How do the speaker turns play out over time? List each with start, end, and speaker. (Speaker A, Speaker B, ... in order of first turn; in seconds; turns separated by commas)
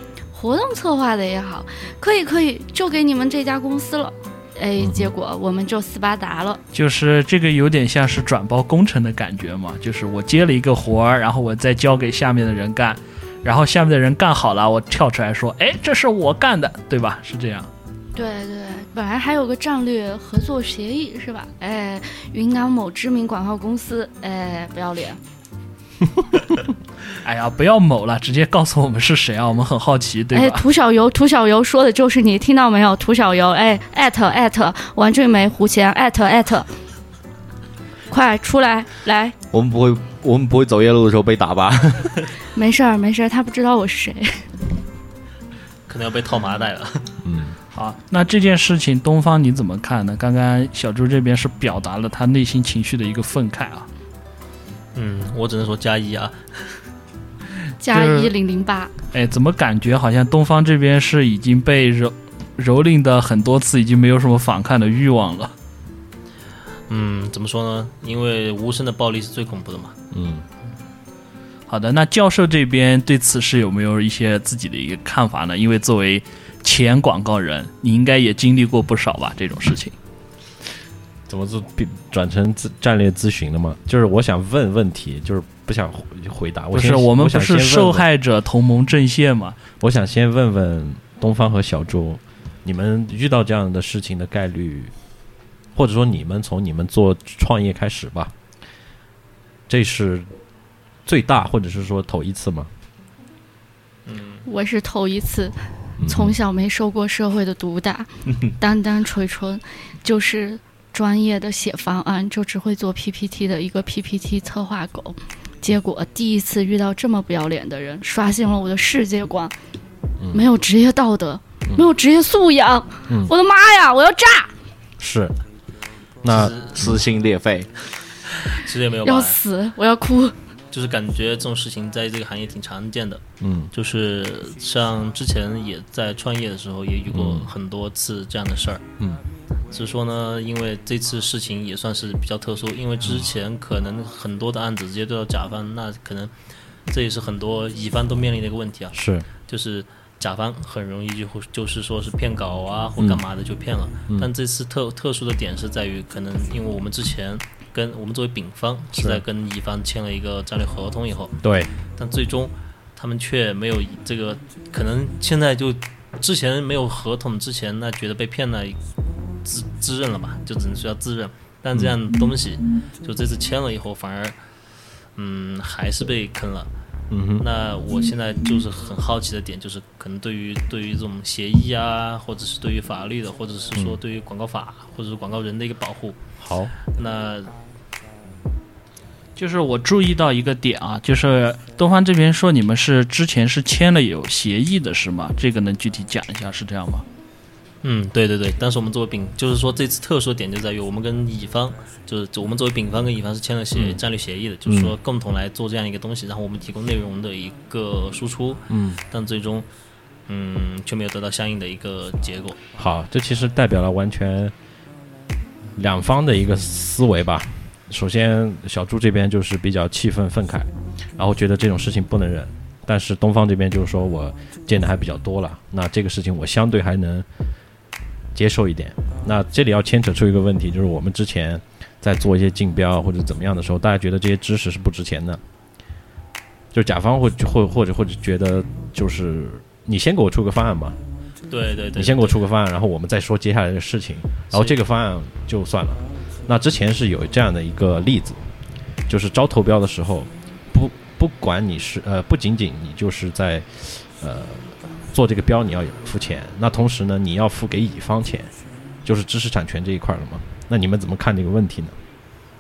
Speaker A: 0.3-6.6, Speaker B: 4.8-5.1, Speaker C: 6.7-17.7, Speaker A: 18.1-25.2, Speaker C: 27.2-30.6, Speaker A: 30.3-36.7, Speaker A: 38.1-39.4, Speaker D: 39.5-42.3, Speaker A: 42.5-44.5, Speaker E: 45.9-47.1, Speaker B: 47.2-47.5, Speaker C: 47.7-53.9, Speaker E: 55.0-56.7, Speaker A: 57.8-58.9, Speaker C: 57.9-58.3, Speaker C: 59.1-65.5, Speaker E: 66.9-70.0, Speaker B: 70.1-70.5, Speaker C: 71.7-80.0, Speaker B: 81.3-88.1, Speaker C: 86.7-89.6, Speaker B: 89.8-94.9, Speaker B: 95.8-98.3, Speaker B: 99.7-100.3, Speaker B: 101.1-102.7, Speaker E: 104.1-104.4, Speaker A: 104.5-119.5, Speaker B: 106.0-106.4, Speaker B: 120.2-120.5, Speaker A: 120.3-124.5, Speaker B: 123.1-123.3, Speaker B: 125.0-125.3, Speaker B: 126.2-127.0, Speaker E: 126.2-126.8, Speaker D: 126.8-127.7, Speaker E: 128.5-129.4, Speaker A: 129.0-130.3, Speaker E: 130.7-138.8, Speaker B: 133.4-133.7, Speaker B: 137.1-137.5, Speaker E: 139.7-146.3, Speaker E: 146.9-161.4, Speaker B: 148.9-149.3, Speaker B: 158.9-159.2, Speaker B: 161.4-161.7, Speaker E: 162.0-168.8, Speaker E: 169.4-174.4, Speaker E: 175.2-176.7, Speaker B: 177.1-177.5, Speaker E: 177.4-186.2, Speaker B: 186.4-186.7, Speaker E: 186.9-187.5, Speaker C: 189.4-197.0, Speaker E: 197.8-209.7, Speaker B: 203.7-204.0, Speaker B: 204.7-205.0, Speaker B: 208.7-209.0, Speaker E: 210.3-212.6, Speaker B: 212.8-214.5, Speaker B: 215.8-227.3, Speaker B: 228.3-235.4, Speaker B: 236.7-241.0, Speaker E: 241.5-242.4, Speaker B: 241.9-248.4, Speaker B: 249.1-258.5, Speaker B: 259.1-262.0